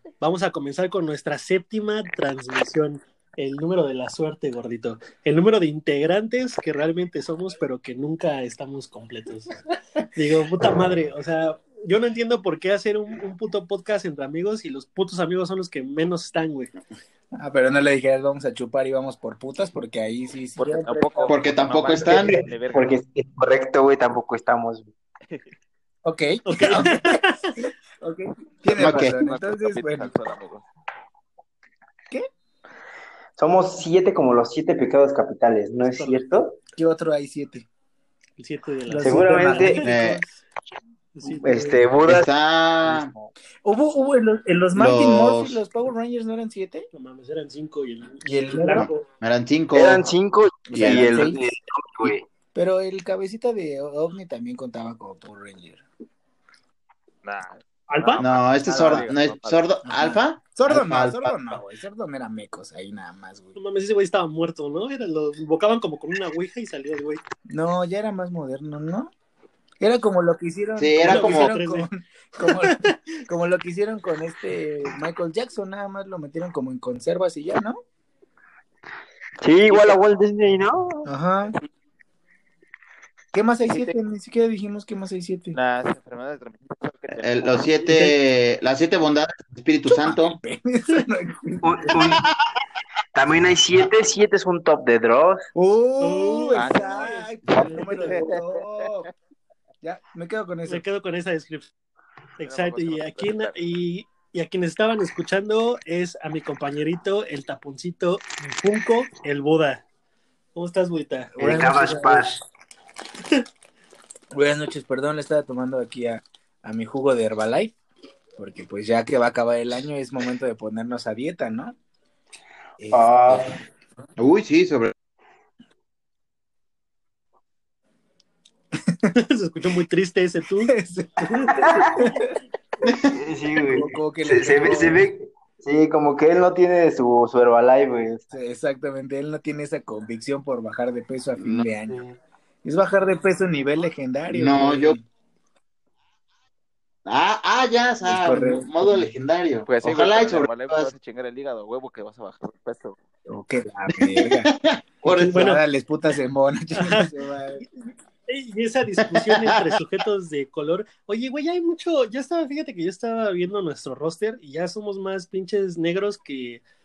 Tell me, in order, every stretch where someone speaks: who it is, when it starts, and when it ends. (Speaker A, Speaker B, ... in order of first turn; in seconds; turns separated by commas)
Speaker A: 0.2-9.6, Speaker A: 10.1-16.7, Speaker B: 17.4-21.3, Speaker C: 20.6-23.0, Speaker D: 21.3-22.4, Speaker E: 22.0-24.9, Speaker B: 26.0-30.1, Speaker A: 26.4-27.5, Speaker C: 28.7-30.7, Speaker D: 28.7-29.1, Speaker E: 33.4-36.6, Speaker A: 35.8-36.2, Speaker B: 36.8-37.7, Speaker A: 38.4-40.4, Speaker B: 38.9-40.2, Speaker E: 39.0-39.8, Speaker D: 39.8-40.2, Speaker A: 41.1-41.8, Speaker E: 41.3-42.3, Speaker D: 42.0-43.1, Speaker E: 42.9-43.3, Speaker B: 43.6-46.9, Speaker D: 44.7-45.6, Speaker A: 46.9-49.0, Speaker B: 48.2-48.9, Speaker D: 48.7-50.1, Speaker E: 49.7-52.2, Speaker B: 50.7-51.4, Speaker D: 50.7-51.3, Speaker B: 52.5-55.8, Speaker C: 57.2-59.6, Speaker A: 57.9-58.2, Speaker D: 58.2-61.6, Speaker B: 58.8-59.0, Speaker B: 59.9-63.5, Speaker A: 63.5-67.2, Speaker B: 67.5-69.1, Speaker B: 69.8-77.8, Speaker D: 70.8-71.5, Speaker A: 71.0-71.9, Speaker A: 72.4-72.9, Speaker E: 79.4-81.1, Speaker C: 79.7-80.0, Speaker B: 81.0-81.5, Speaker B: 83.3-85.6, Speaker C: 83.7-84.0, Speaker C: 85.5-87.6, Speaker D: 87.1-90.4, Speaker B: 89.9-92.0, Speaker E: 91.6-92.2, Speaker E: 93.1-95.5, Speaker B: 95.5-99.1, Speaker A: 96.0-98.1, Speaker C: 96.5-99.1, Speaker B: 99.8-100.8, Speaker A: 100.7-101.7, Speaker A: 102.4-109.8, Speaker C: 102.4-103.5, Speaker A: 110.5-111.7, Speaker B: 111.4-112.4, Speaker E: 111.4-112.4, Speaker B: 114.3-117.7, Speaker B: 118.4-121.7, Speaker B: 122.8-123.5, Speaker E: 122.9-123.6, Speaker D: 124.2-124.9, Speaker B: 128.8-129.1, Speaker A: 129.1-132.1, Speaker B: 130.7-132.4, Speaker E: 131.5-132.0, Speaker D: 132.8-133.1, Speaker E: 133.1-138.3, Speaker B: 133.7-135.1, Speaker B: 138.3-142.0, Speaker D: 141.4-141.6, Speaker B: 142.6-145.0, Speaker D: 144.3-145.0, Speaker D: 147.1-150.9, Speaker B: 148.1-149.1, Speaker C: 149.7-153.0, Speaker B: 153.3-154.5, Speaker D: 153.9-155.4, Speaker B: 155.1-157.6, Speaker A: 155.1-155.6, Speaker A: 156.8-157.1, Speaker A: 158.3-166.6, Speaker D: 159.2-159.7